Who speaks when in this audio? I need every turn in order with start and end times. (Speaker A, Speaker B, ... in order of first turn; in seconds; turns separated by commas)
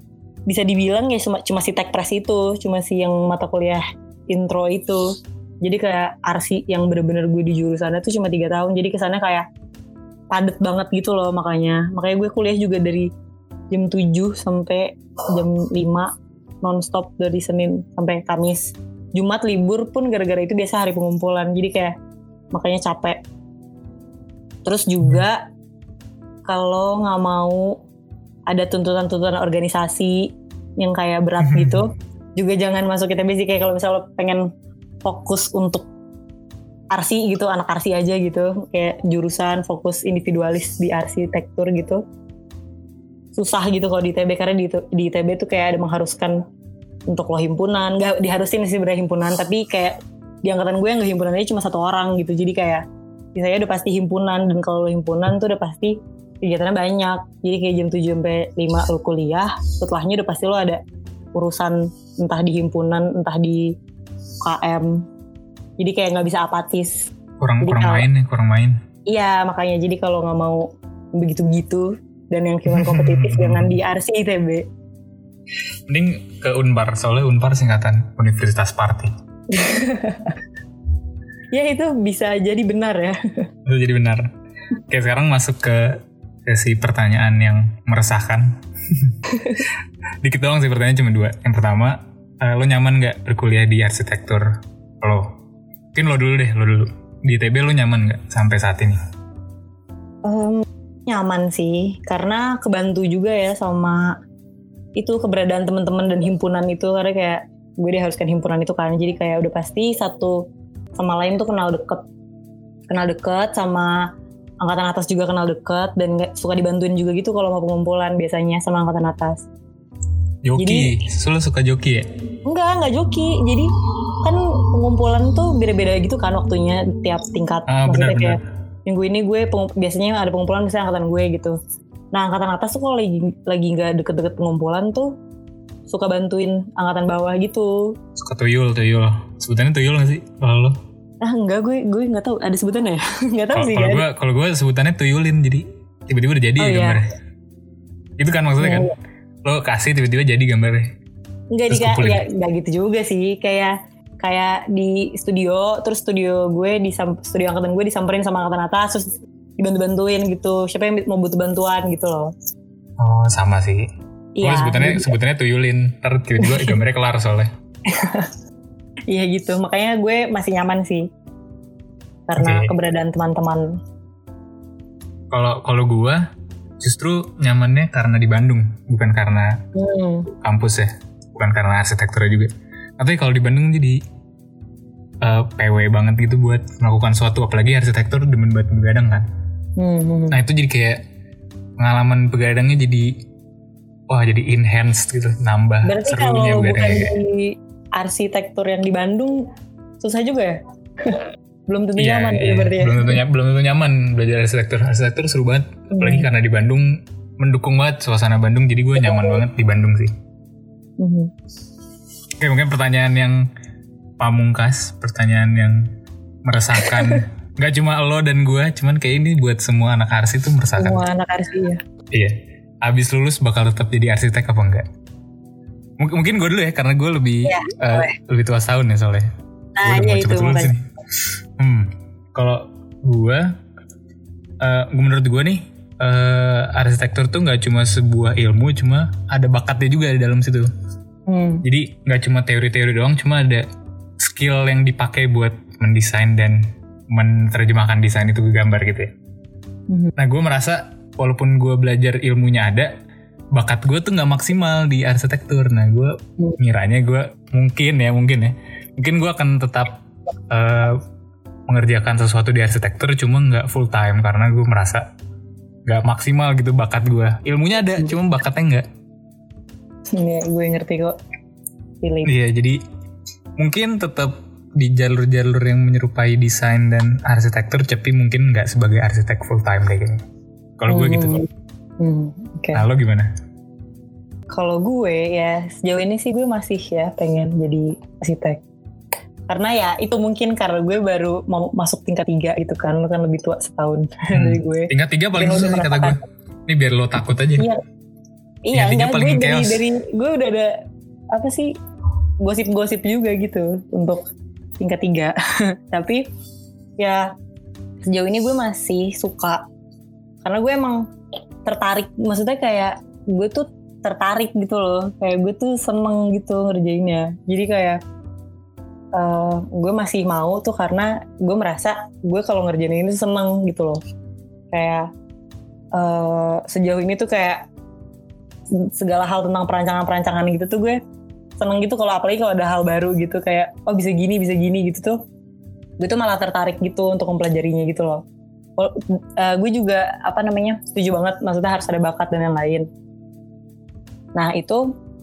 Speaker A: 0.5-9.4, Speaker A: 10.3-13.1, Speaker A: 13.7-16.1, Speaker A: 16.6-21.9, Speaker A: 22.5-23.2, Speaker A: 24.6-25.4, Speaker A: 26.4-27.8, Speaker A: 28.5-34.5, Speaker B: 31.4-31.8, Speaker A: 35.0-35.9, Speaker A: 36.9-42.0, Speaker A: 43.4-46.4, Speaker A: 47.1-52.8, Speaker A: 53.3-60.8, Speaker A: 61.3-63.7, Speaker A: 64.4-65.0, Speaker A: 65.8-68.0, Speaker B: 67.4-68.8, Speaker A: 69.1-74.7, Speaker B: 72.7-73.8, Speaker B: 75.9-79.1, Speaker A: 79.5-80.4, Speaker A: 81.5-83.5, Speaker B: 83.7-84.3, Speaker B: 84.9-89.2, Speaker A: 89.3-89.6, Speaker B: 90.2-95.3, Speaker B: 95.9-99.0, Speaker A: 100.2-104.2, Speaker A: 105.0-110.4, Speaker A: 111.0-112.0, Speaker A: 112.9-114.1, Speaker A: 114.6-119.5, Speaker B: 120.4-122.1, Speaker A: 120.6-120.9, Speaker A: 122.5-123.7, Speaker A: 124.2-131.6, Speaker B: 127.7-128.4, Speaker A: 132.1-135.1, Speaker A: 135.9-137.9, Speaker B: 138.2-140.8, Speaker A: 141.2-144.0, Speaker B: 143.5-147.1, Speaker A: 146.6-147.0, Speaker B: 148.2-148.9, Speaker A: 148.6-148.9, Speaker B: 149.4-150.9, Speaker A: 151.5-162.3, Speaker B: 151.7-152.2, Speaker B: 163.0-163.9, Speaker A: 164.4-165.1, Speaker B: 164.4-167.5, Speaker A: 166.4-166.8, Speaker A: 167.9-168.3, Speaker A: 169.1-171.1, Speaker A: 172.3-173.8, Speaker B: 172.4-172.7, Speaker B: 175.3-176.2, Speaker B: 176.8-179.6, Speaker A: 179.7-180.3, Speaker B: 180.4-184.0, Speaker B: 185.2-189.2, Speaker A: 189.8-190.4, Speaker B: 190.3-191.0, Speaker B: 191.8-193.1, Speaker B: 194.1-197.1, Speaker A: 195.8-199.5, Speaker A: 200.0-203.2, Speaker B: 202.0-210.1, Speaker A: 205.9-206.3, Speaker A: 211.0-211.3, Speaker B: 212.4-213.4, Speaker B: 214.2-215.9, Speaker B: 216.4-221.0, Speaker A: 216.8-217.2, Speaker A: 220.8-221.8, Speaker B: 222.1-224.8, Speaker B: 226.0-229.3, Speaker A: 227.4-228.2, Speaker A: 229.8-230.7, Speaker B: 229.8-230.8, Speaker B: 231.6-233.5, Speaker B: 234.6-240.7, Speaker A: 241.3-241.6, Speaker B: 241.6-243.7, Speaker B: 244.2-249.1, Speaker B: 250.2-252.9, Speaker B: 253.5-259.9, Speaker B: 260.5-261.0, Speaker B: 261.7-265.1, Speaker B: 265.9-268.9, Speaker A: 270.1-271.2, Speaker A: 272.0-272.3, Speaker B: 272.2-272.8, Speaker B: 273.6-280.2, Speaker B: 280.8-281.4, Speaker A: 280.9-281.5, Speaker A: 282.0-282.8, Speaker B: 282.7-283.3, Speaker A: 284.5-288.6, Speaker A: 289.5-296.2, Speaker B: 294.3-297.7, Speaker A: 298.6-300.7, Speaker B: 298.7-299.8, Speaker A: 301.3-301.7, Speaker A: 302.4-304.2, Speaker A: 304.8-306.3, Speaker A: 307.0-307.3, Speaker A: 308.0-309.6, Speaker A: 310.4-311.1, Speaker A: 311.6-318.0, Speaker A: 319.1-324.0, Speaker A: 324.7-325.1, Speaker A: 325.9-327.6, Speaker A: 328.9-331.0, Speaker A: 331.6-335.2, Speaker A: 336.0-338.2, Speaker A: 338.8-342.9, Speaker A: 344.4-344.9